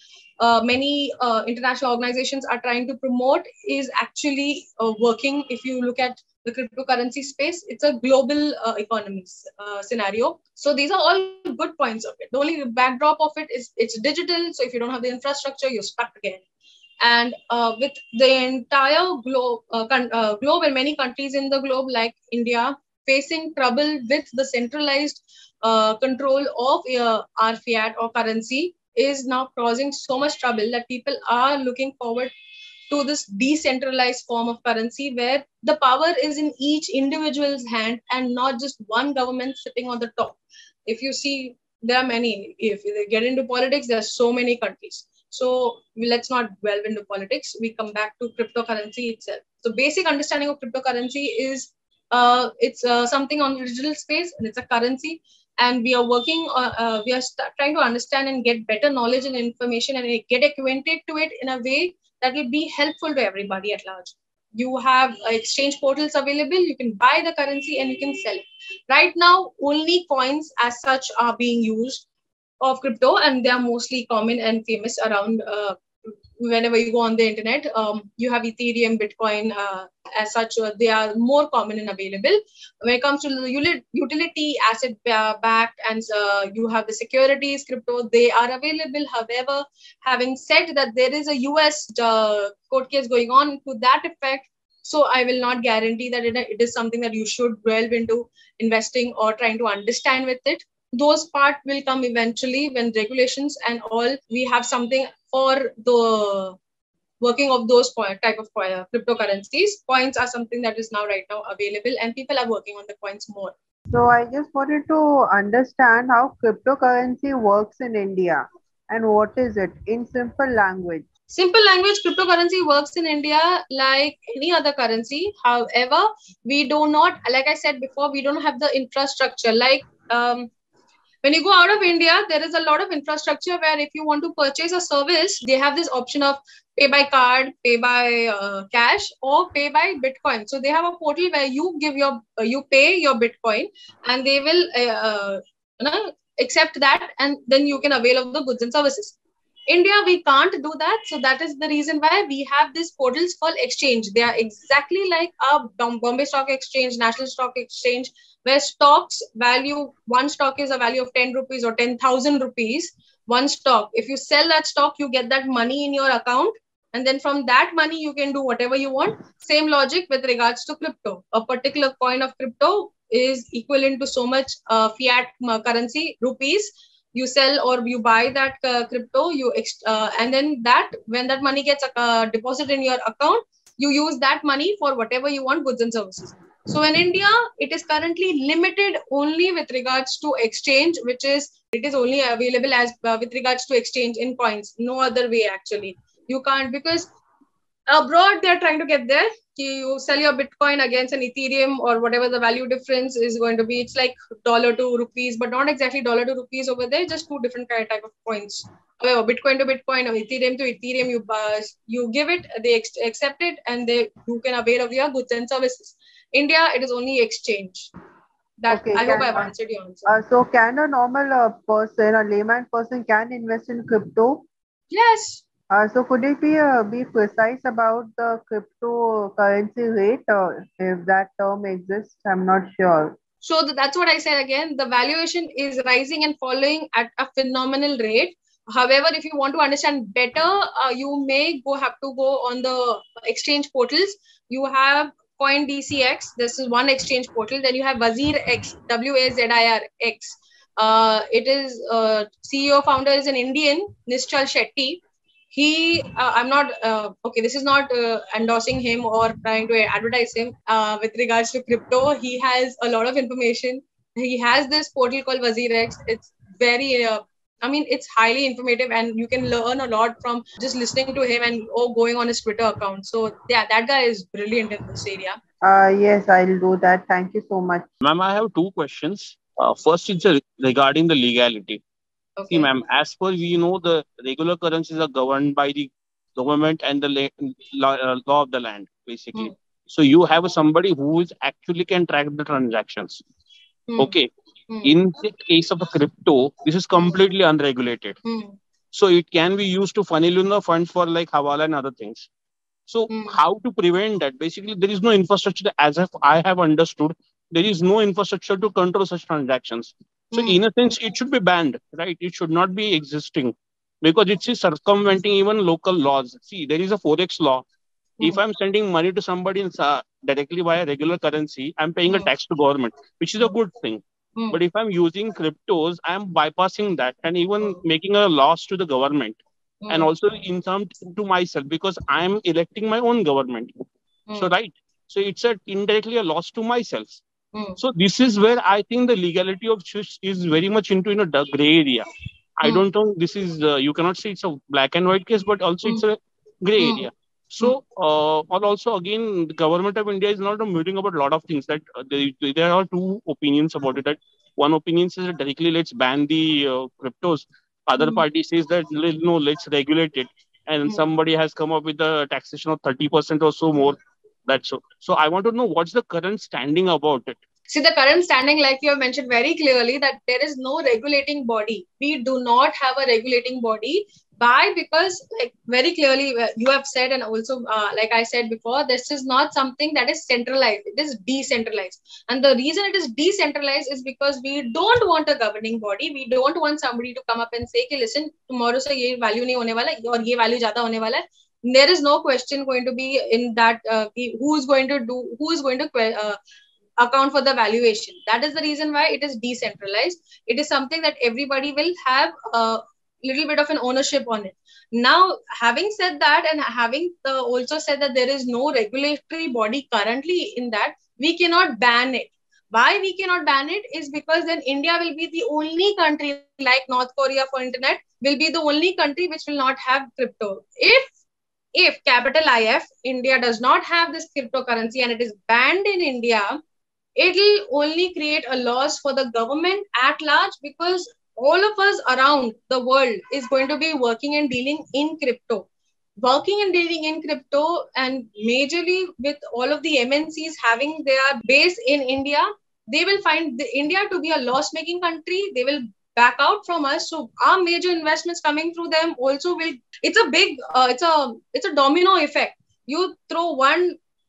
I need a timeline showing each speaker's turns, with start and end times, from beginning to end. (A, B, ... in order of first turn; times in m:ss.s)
0:00.4-0:16.4 A
0:17.0-0:32.3 A
0:32.9-1:12.0 A
1:12.6-1:15.8 A
1:16.4-1:46.6 A
1:47.2-1:53.6 A
1:53.9-2:01.1 B
2:01.3-2:10.5 A
2:11.2-2:29.2 A
2:29.7-3:17.1 A
3:17.9-3:37.9 A
3:38.6-3:40.2 A
3:38.7-3:39.5 B
3:40.1-3:44.5 B
3:44.9-3:45.4 A
3:45.7-3:53.2 B
3:53.4-4:15.0 A
4:15.5-4:35.4 A
4:35.6-4:37.9 B
4:38.0-4:41.8 C
4:42.4-4:42.7 A
4:42.5-4:53.2 C
4:53.9-4:54.2 A
4:54.0-4:54.3 C
4:54.7-4:55.0 A
4:54.8-4:58.2 C
4:58.2-4:58.6 A
4:58.9-5:02.3 C
5:02.9-5:17.6 C
5:03.1-5:03.4 A
5:10.3-5:10.6 A
5:18.2-5:33.7 C
5:29.8-5:30.1 A
5:34.4-5:37.2 C
5:37.5-5:37.8 A
5:37.8-6:07.4 C
5:46.8-5:47.1 A
5:58.0-5:58.2 A
6:07.7-6:36.4 A
6:37.0-7:01.1 A
7:01.8-7:06.6 A
7:07.2-7:15.7 A
7:16.2-7:34.0 A